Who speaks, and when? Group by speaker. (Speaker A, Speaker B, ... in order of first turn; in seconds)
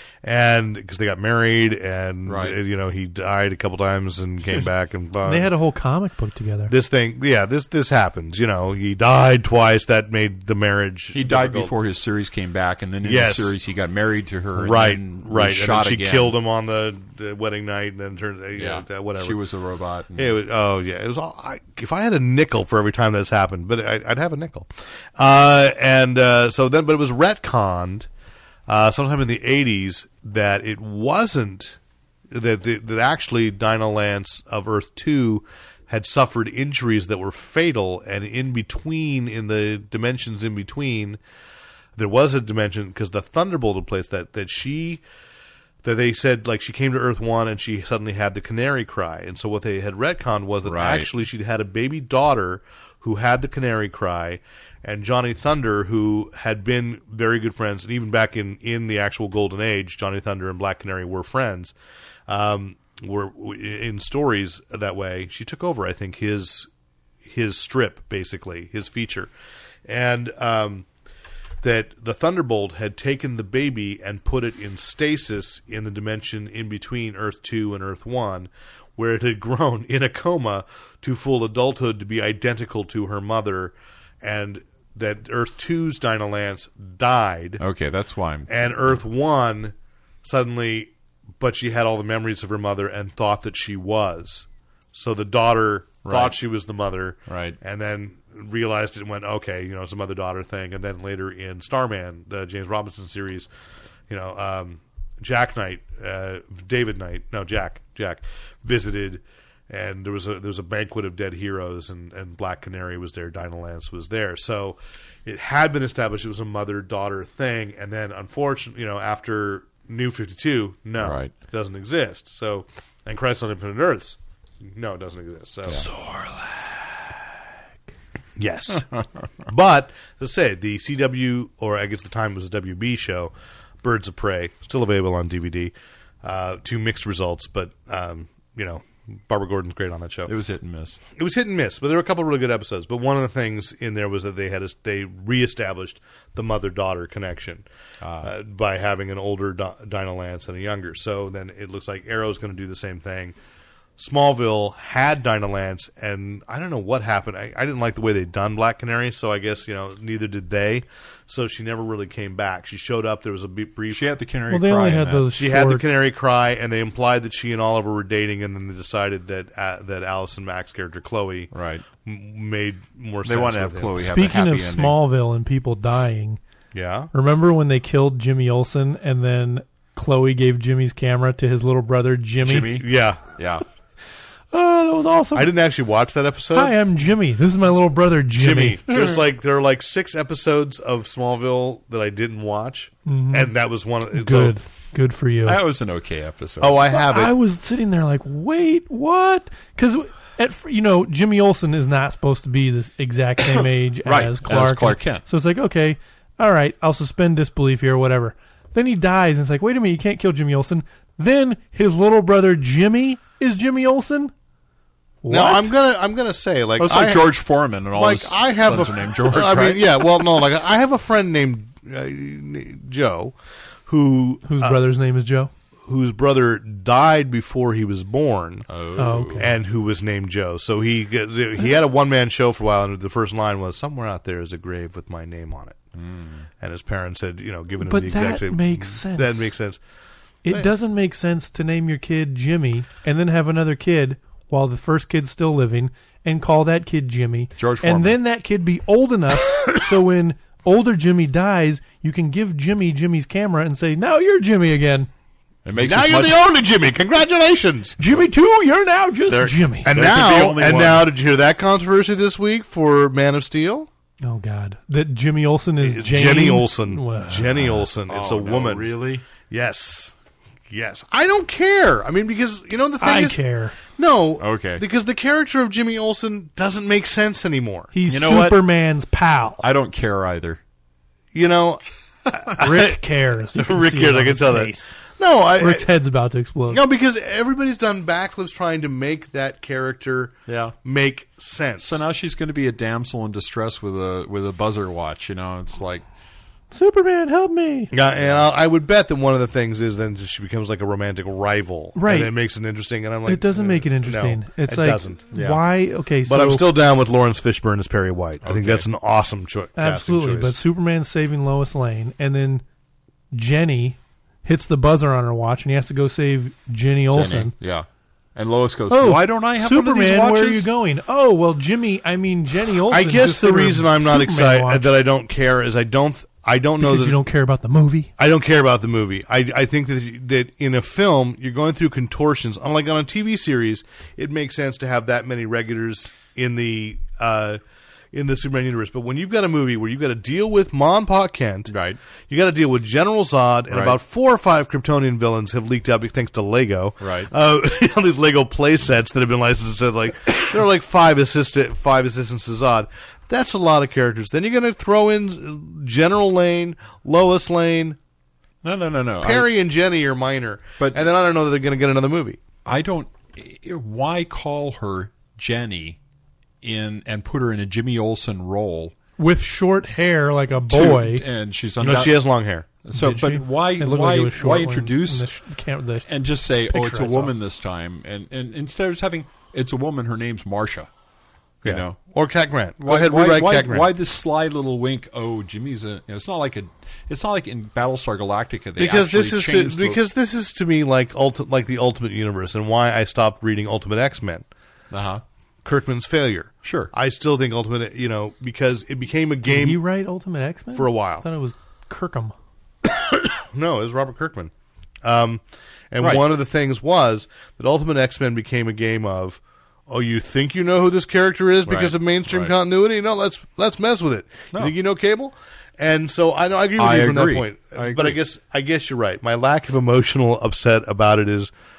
Speaker A: 0.2-5.5, 6.7-11.7, 13.0-13.5, 14.6-19.4, 20.1-28.1, 28.7-31.8, 32.3-41.2, 42.0-45.0, 45.8-61.8, 62.3-66.7, 67.2-69.3, 69.9-70.9, 71.6-87.6, 88.5-103.5, 104.1-125.9, 128.4-128.9, 129.4-140.3, 141.2-147.7, 148.2-153.3, 154.0-164.1, 165.3-171.5, 172.0-174.1, 176.7-177.1, 182.8-183.2, 185.3-186.7, 188.3-194.6, 196.6-197.3, 215.3-217.4, 217.9-223.3, 223.9-224.8, 225.9-228.7, 229.3-235.8, 236.6-239.8, 255.8-258.0, 259.8-263.9, 265.8-268.9, 269.5-270.1, 270.7-277.9, 281.3-283.0, 283.5-285.9, 286.7-292.0, 297.9-305.2, 306.3-310.6, 322.9-327.2, 328.2-337.6, 338.1-341.7, 342.3-358.0, 359.2-362.4, 371.8-372.7, 381.6-383.9, 388.8-394.5, 395.6-399.8, 400.8-401.2, 403.0-404.5, 405.0-421.5
Speaker B: 2.3-2.6, 11.1-16.4, 18.6-20.4, 50.7-51.1, 87.6-88.5, 96.0-96.4, 97.3-97.6, 121.0-121.3, 140.3-141.0, 148.0-148.3, 163.9-165.3, 171.5-171.8, 173.2-175.0, 182.4-183.7, 195.4-196.8, 204.1-205.2, 216.8-220.3, 228.7-229.5, 235.9-236.5, 247.6-248.2, 255.7-256.4, 259.3-261.1, 268.1-269.2, 274.4-274.8, 278.1-278.6, 279.6-280.6, 290.5-290.8, 291.8-296.1, 298.2-298.5, 305.3-305.6, 308.4-308.9, 317.1-320.7, 341.7-342.0, 343.7-344.0, 347.0-347.3, 358.6-359.5, 362.6-366.0, 366.6-368.9, 370.7-372.2, 372.8-375.3, 376.1-380.9, 381.6-382.0, 382.8-390.0, 394.9-395.2, 396.6-396.9, 411.7-412.6, 416.8-418.2
Speaker C: 5.3-6.7, 125.9-127.2, 164.5-165.9, 174.0-176.4, 177.1-182.8, 184.5-185.5, 186.5-188.8, 193.1-193.5, 194.1-195.6, 196.9-214.3, 215.2-215.7, 224.4-225.5, 229.0-229.5, 237.8-239.5, 240.4-255.1, 258.0-259.9, 264.2-267.9, 273.0-273.8, 277.9-279.6, 282.6-285.0, 285.6-286.8, 296.7-297.9, 302.0-302.3, 303.3-306.7, 309.8-312.6, 313.3-317.5, 318.9-324.9, 326.8-328.1, 369.2-371.2, 372.9-377.3, 399.4-402.4